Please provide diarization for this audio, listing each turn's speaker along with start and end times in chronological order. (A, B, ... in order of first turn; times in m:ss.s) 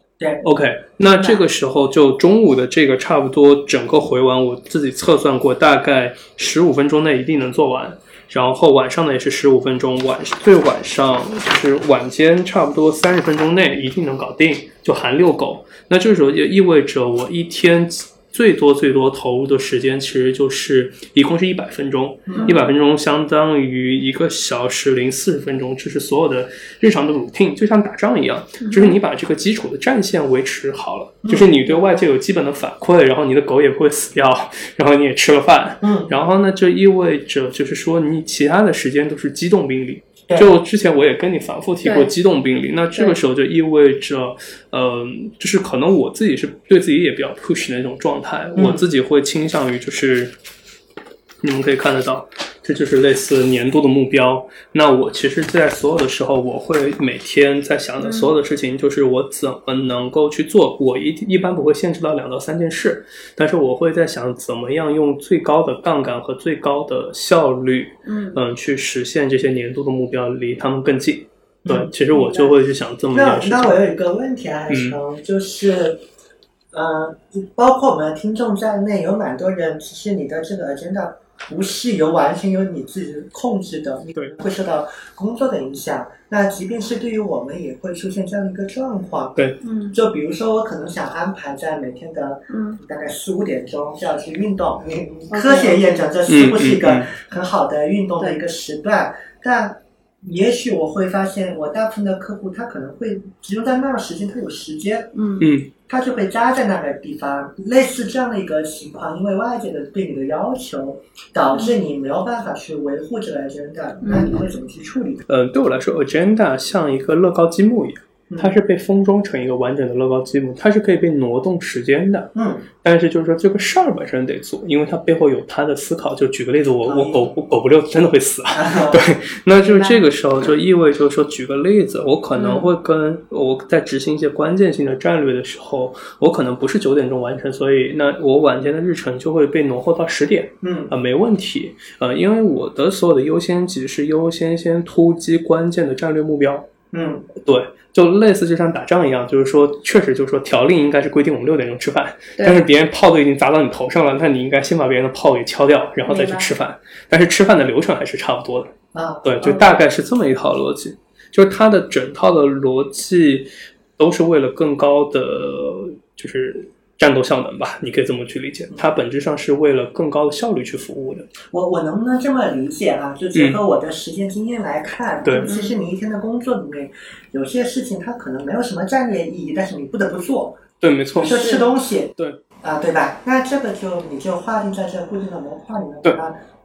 0:00.4-0:50.4 A
0:01.0-0:01.4 B
0:22.3-0:22.6 C
0:22.3-0:22.7 B
0:28.6-0:29.0 B
0:31.2-0:31.5 C
0:31.6-0:32.0 B
0:35.8-0:36.1 C
0:41.8-0:42.1 B
0:48.6-0:48.9 C
0:51.4-1:13.8 A
0:58.0-0:58.3 B
1:08.0-1:08.4 B
1:11.6-1:11.9 C
1:12.1-1:12.5 B
1:13.1-1:16.0 C
1:14.7-1:15.0 A
1:16.7-1:29.4 C
1:29.6-1:30.0 B
1:29.9-1:45.1 C
1:32.5-1:32.8 B
1:35.3-1:36.1 B
1:36.3-1:37.1 A
1:45.1-1:45.5 B
1:45.4-1:45.7 A
1:45.9-1:55.2 C
1:51.5-1:51.8 B
1:54.0-1:54.4 B
1:55.3-2:02.3 A
1:58.3-1:58.6 C
2:02.4-2:02.6 C
2:02.8-2:26.7 A
2:06.8-2:07.2 C
2:08.5-2:09.1 C
2:09.6-2:10.1 B
2:12.3-2:12.7 B
2:20.6-2:20.9 C
2:26.9-2:27.3 C
2:27.4-2:38.7 A
2:32.4-2:32.6 B
2:36.0-2:36.5 B
2:38.9-2:39.6 C
2:39.2-2:51.3 A
2:51.5-3:00.6 C
2:53.3-2:53.6 A
2:55.2-2:55.5 A
2:55.4-2:55.7 B
3:00.8-3:01.4 A
3:01.2-3:06.4 C
3:01.2-3:01.7 B